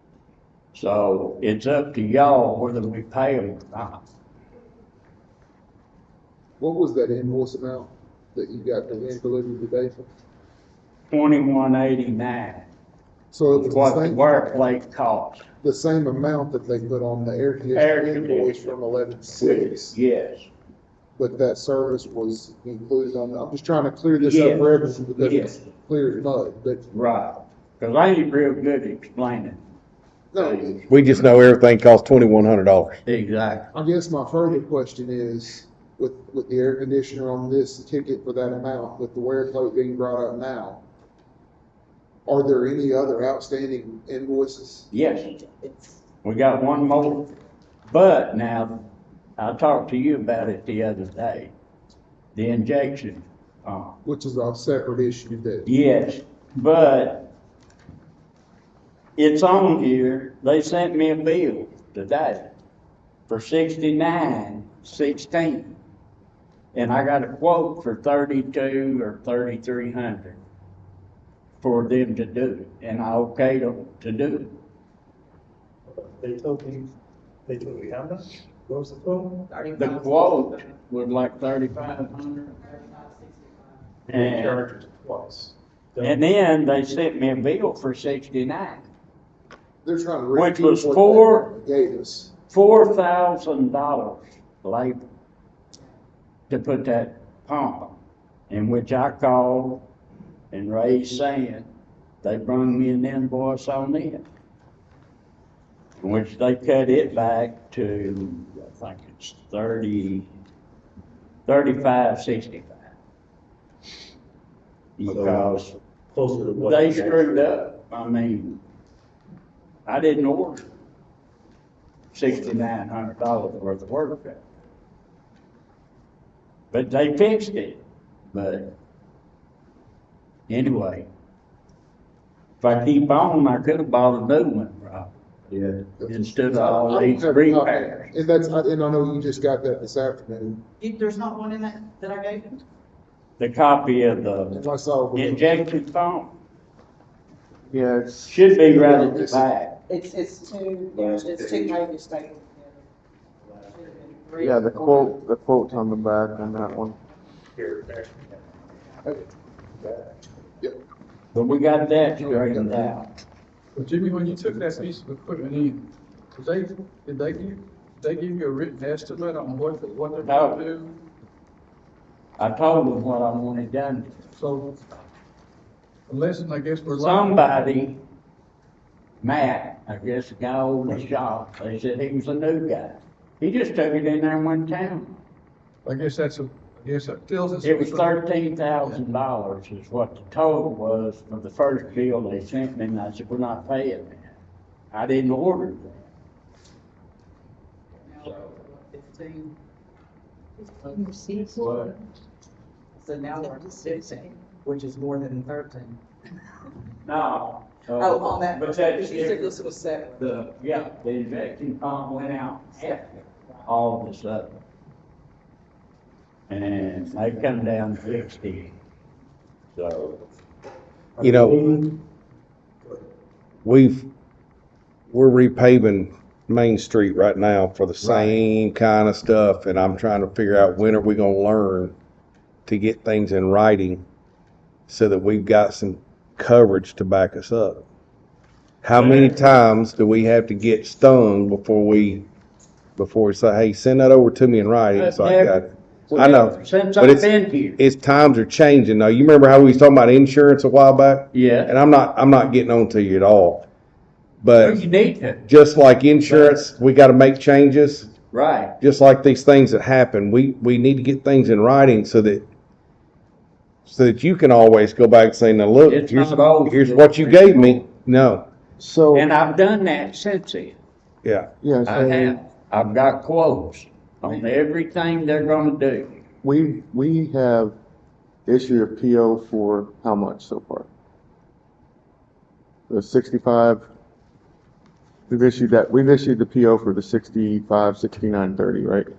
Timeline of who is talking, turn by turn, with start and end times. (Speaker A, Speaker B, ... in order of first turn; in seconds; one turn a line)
Speaker A: 0.7-4.0
Speaker B: 6.6-10.1
Speaker A: 11.1-12.7
Speaker B: 13.3-14.6
Speaker A: 13.5-15.4
Speaker B: 15.6-19.9
Speaker A: 17.7-18.7
Speaker A: 19.4-20.5
Speaker B: 21.1-26.8
Speaker A: 24.2-25.6
Speaker A: 26.9-29.6
Speaker B: 30.3-30.8
Speaker A: 30.4-30.9
Speaker C: 30.9-33.0
Speaker A: 33.0-33.7
Speaker B: 33.7-40.8
Speaker B: 42.2-44.9
Speaker A: 44.9-45.4
Speaker A: 46.2-47.3
Speaker A: 47.9-48.8
Speaker A: 49.4-51.5
Speaker A: 52.3-54.0
Speaker B: 54.0-55.7
Speaker A: 55.6-57.3
Speaker A: 59.2-62.5
Speaker A: 63.3-65.8
Speaker A: 66.7-70.4
Speaker A: 71.6-74.5
Speaker D: 76.2-76.8
Speaker D: 77.5-79.3
Speaker E: 77.8-78.1
Speaker F: 79.5-80.4
Speaker A: 79.7-82.7
Speaker F: 82.8-83.3
Speaker A: 84.1-84.6
Speaker E: 84.1-85.5
Speaker D: 85.0-85.4
Speaker A: 86.0-88.9
Speaker B: 89.8-92.3
Speaker A: 90.3-91.5
Speaker A: 92.5-95.0
Speaker A: 96.5-98.0
Speaker A: 98.5-99.8
Speaker A: 100.5-101.7
Speaker A: 102.2-104.2
Speaker A: 106.0-110.3
Speaker A: 111.5-112.9
Speaker A: 115.0-115.7
Speaker E: 115.1-115.5
Speaker E: 116.1-117.4
Speaker A: 116.6-118.6
Speaker A: 119.8-120.7
Speaker A: 122.1-124.4
Speaker A: 126.7-128.8
Speaker A: 130.5-131.1
Speaker A: 132.6-135.1
Speaker B: 136.0-140.6
Speaker A: 136.0-138.1
Speaker F: 140.8-142.6
Speaker A: 143.4-144.6
Speaker B: 144.5-145.5
Speaker A: 145.1-146.3
Speaker E: 147.7-148.5
Speaker A: 148.2-149.8
Speaker B: 148.6-149.4
Speaker F: 149.9-152.8
Speaker E: 151.0-151.8
Speaker F: 153.7-155.1
Speaker E: 154.4-157.0
Speaker A: 161.3-163.1
Speaker E: 162.5-162.8
Speaker G: 163.8-170.9
Speaker A: 170.2-170.8
Speaker A: 172.4-174.2
Speaker G: 174.3-174.8
Speaker G: 176.1-177.6
Speaker A: 176.8-178.0
Speaker A: 179.2-185.2
Speaker G: 185.8-188.2
Speaker A: 187.6-194.4
Speaker A: 194.9-196.1
Speaker F: 198.1-199.5
Speaker F: 200.8-201.4
Speaker A: 201.5-201.9
Speaker F: 202.9-206.0
Speaker A: 207.0-209.6
Speaker F: 207.9-210.3
Speaker A: 210.2-214.6
Speaker A: 216.5-218.7
Speaker A: 219.7-220.2
Speaker C: 221.2-221.7
Speaker C: 223.6-224.1
Speaker C: 225.1-231.9
Speaker A: 228.0-228.4
Speaker C: 232.7-234.0
Speaker C: 234.9-237.8
Speaker C: 238.8-242.3
Speaker A: 238.9-239.4
Speaker C: 242.9-253.7
Speaker A: 244.9-247.8
Speaker A: 251.3-251.7
Speaker C: 254.4-254.8
Speaker A: 254.6-255.4
Speaker C: 255.4-258.1
Speaker A: 256.2-256.6
Speaker A: 258.3-258.8
Speaker C: 258.8-262.5
Speaker C: 263.8-268.5
Speaker A: 265.9-267.8
Speaker E: 268.8-269.3
Speaker A: 269.1-270.8
Speaker C: 271.2-271.5
Speaker E: 271.6-272.4
Speaker A: 271.8-276.1
Speaker E: 276.4-277.7
Speaker E: 278.4-280.9
Speaker E: 282.9-283.9
Speaker E: 285.3-289.1